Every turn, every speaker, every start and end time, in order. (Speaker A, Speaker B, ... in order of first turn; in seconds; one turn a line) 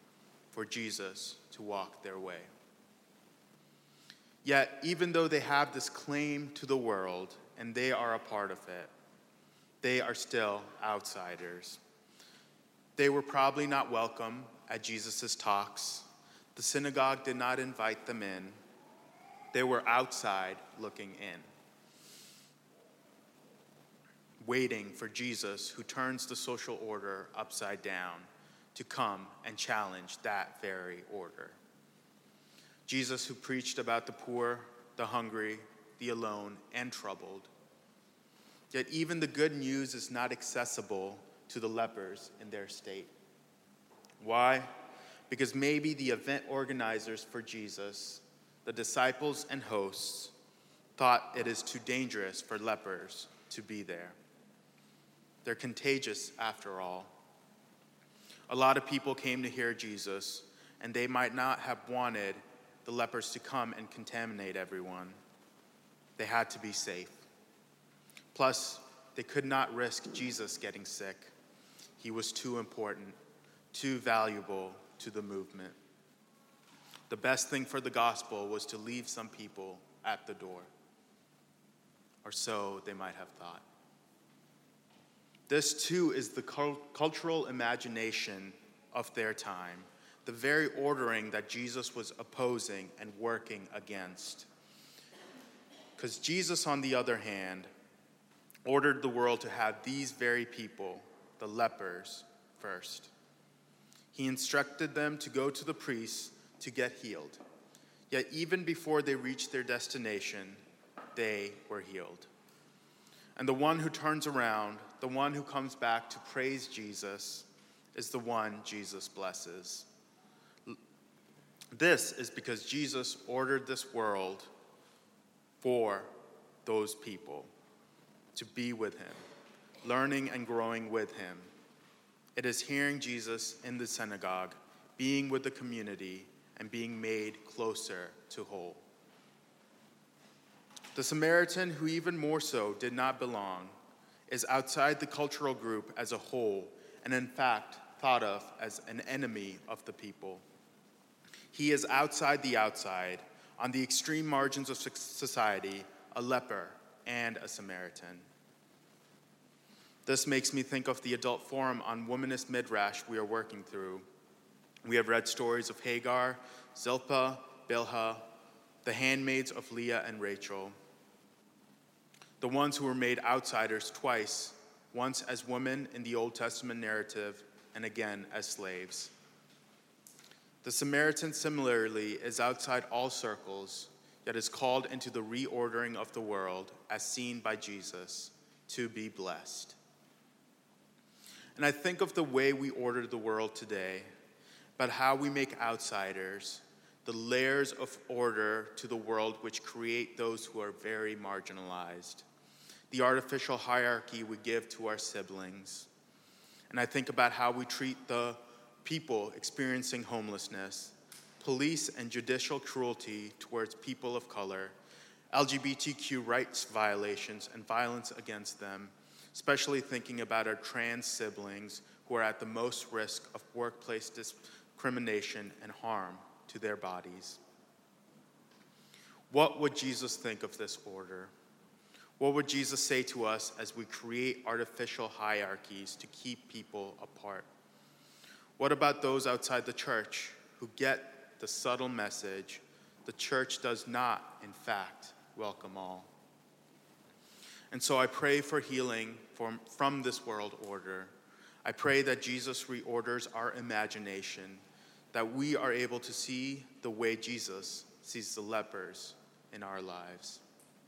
Speaker A: 0.5-2.5
Speaker A: 4.4-8.9
Speaker A: 9.8-11.8
Speaker A: 13.0-18.6
Speaker A: 19.5-21.5
Speaker A: 24.4-31.6
Speaker A: 32.9-37.5
Speaker A: 38.7-43.1
Speaker A: 44.2-44.7
Speaker A: 45.3-50.3
Speaker A: 51.0-54.2
Speaker A: 55.4-57.1
Speaker A: 58.5-65.2
Speaker A: 66.2-67.3
Speaker A: 68.3-71.3
Speaker A: 72.0-73.2
Speaker A: 73.7-75.8
Speaker A: 77.1-80.7
Speaker A: 82.2-83.7
Speaker A: 85.5-94.5
Speaker A: 96.0-97.7
Speaker A: 98.7-103.1
Speaker A: 104.1-107.4
Speaker A: 108.1-110.6
Speaker A: 111.2-112.3
Speaker A: 113.4-119.9
Speaker A: 121.7-124.5
Speaker A: 125.6-126.1
Speaker A: 126.7-127.5
Speaker A: 128.3-129.2
Speaker A: 129.8-131.5
Speaker A: 132.4-138.8
Speaker A: 140.9-143.8
Speaker A: 144.3-150.4
Speaker A: 151.5-158.2
Speaker A: 160.1-164.1
Speaker A: 164.8-168.2
Speaker A: 168.8-170.7
Speaker A: 172.4-179.1
Speaker A: 180.6-189.8
Speaker A: 191.6-194.1
Speaker A: 194.8-202.3
Speaker A: 202.9-205.9
Speaker A: 206.7-214.8
Speaker A: 215.3-227.4
Speaker A: 229.3-231.3
Speaker A: 232.2-237.5
Speaker A: 238.6-246.1
Speaker A: 247.7-251.1
Speaker A: 251.7-260.4